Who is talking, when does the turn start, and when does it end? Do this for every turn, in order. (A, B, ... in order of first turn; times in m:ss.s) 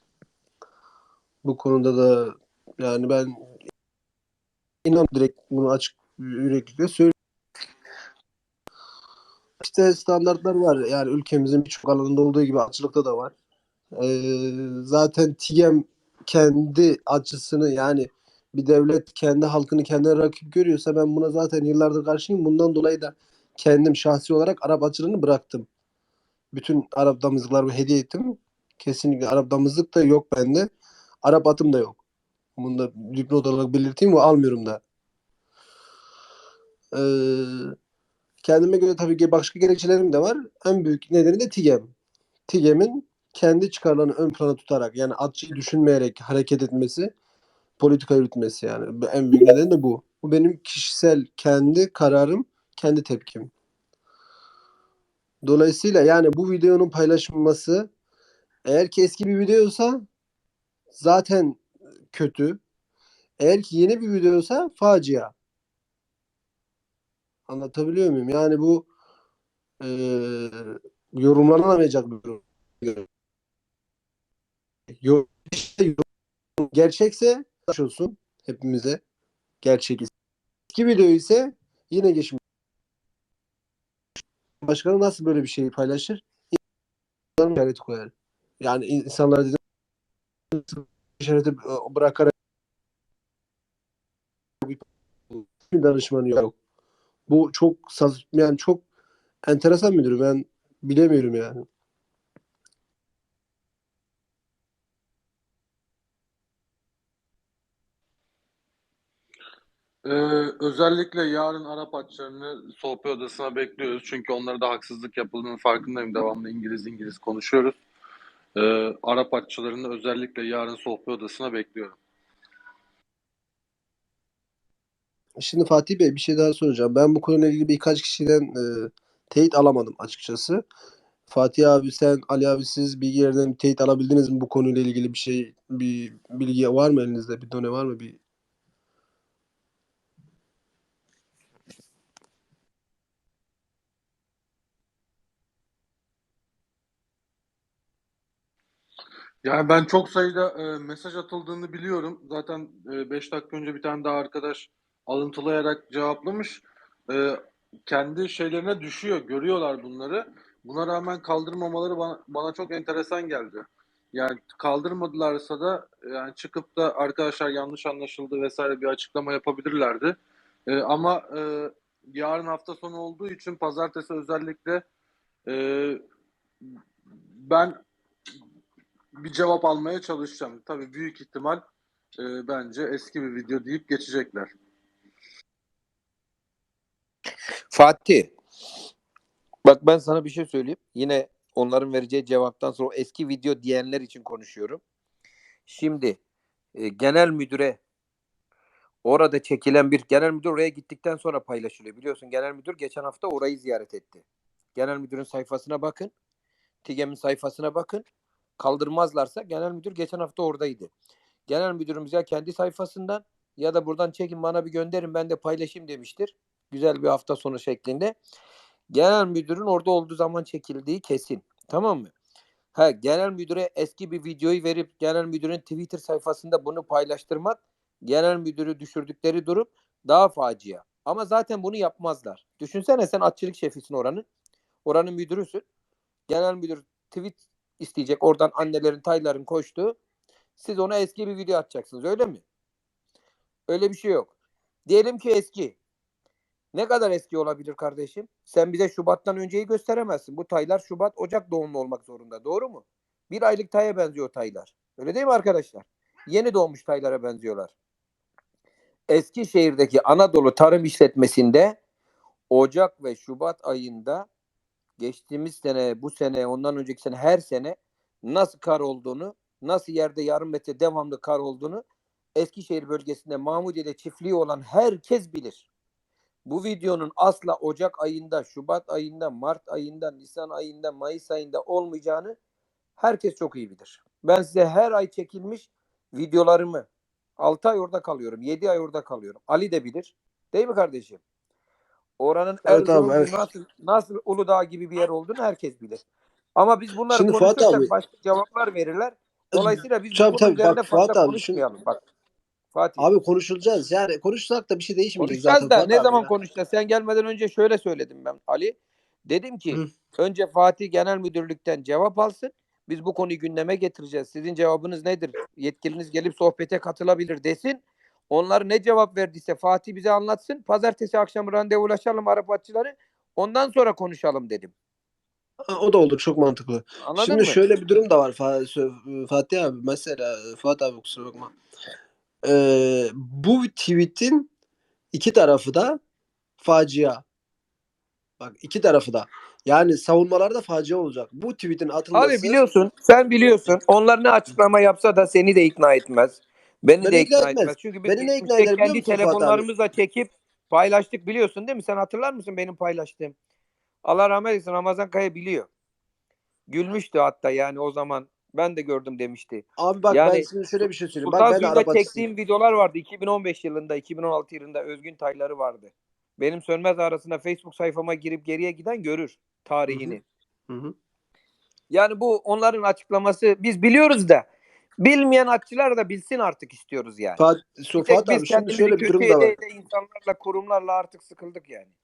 0:01.4-0:03.5 A
0:04.8-0:07.1 A
0:09.6-0:13.3 A
0:14.0-0:25.7 A
0:26.5-0:30.7 A
0:31.2-0:32.0 A
0:32.6-0:34.8 A
0:36.9-0:37.8 A
0:38.4-0:41.9 A
0:42.5-0:47.1 A
0:47.8-0:53.5 A
0:55.4-0:57.9 A
0:58.7-1:00.0 A
1:00.9-1:01.6 A
1:02.1-1:02.6 A
1:03.4-1:05.3 A
1:07.5-1:08.9 A
1:09.8-1:13.1 A
1:15.0-1:16.0 A
1:16.6-1:19.0 A
1:19.6-1:20.1 A
1:20.7-1:22.4 A
1:24.6-1:26.6 A
1:27.4-1:29.6 A
1:30.5-1:32.3 A
1:34.6-1:36.5 A
1:37.3-1:38.8 A
1:39.5-1:41.6 A
1:50.0-1:57.8 B
1:58.6-2:02.0 B
2:05.4-2:10.6 A
2:11.3-2:18.2 A
2:29.4-2:50.2 B
2:50.7-2:54.8 B
2:55.5-2:56.0 B
2:57.4-2:57.8 B
2:59.2-3:01.6 B
3:02.2-3:04.5 B
3:07.7-3:08.3 C
3:09.6-3:14.8 C
3:15.7-3:16.2 C
3:16.8-3:17.8 C
3:19.0-3:24.2 C
3:24.8-3:26.1 C
3:26.8-3:28.0 C
3:28.6-3:30.9 C
3:31.5-3:38.2 C
3:38.9-3:42.1 C
3:42.8-3:54.3 C
3:54.8-3:55.6 C
3:56.3-4:00.0 C
4:00.6-4:02.4 C
4:03.7-4:04.3 C
4:04.9-4:05.8 C
4:06.7-4:17.7 C
4:19.1-4:21.8 C
4:22.5-4:24.3 C
4:25.0-4:31.8 C
4:32.4-4:35.7 C
4:36.5-4:42.4 C
4:43.0-4:46.9 C
4:47.4-4:51.2 C
4:52.2-4:56.0 C
4:52.7-4:53.4 A
4:56.6-5:02.0 C
4:57.1-4:57.9 A
4:59.5-5:01.6 A
5:02.7-5:03.1 C
5:03.0-5:06.3 A
5:05.2-5:24.7 C
5:25.6-5:31.5 A
5:27.0-5:27.6 C
5:32.4-5:34.5 A
5:35.1-5:36.0 A
5:36.6-5:37.2 A
5:38.4-5:42.6 A
5:42.2-5:53.4 C
5:47.0-5:49.6 A
5:54.0-5:55.7 C
5:56.7-6:00.5 C
5:59.8-6:02.2 A
6:01.2-6:10.2 C
6:09.9-6:10.2 A
6:10.7-6:10.9 A
6:11.9-6:14.5 C
6:15.0-6:17.4 C
6:17.4-6:19.6 A
6:18.0-6:21.9 C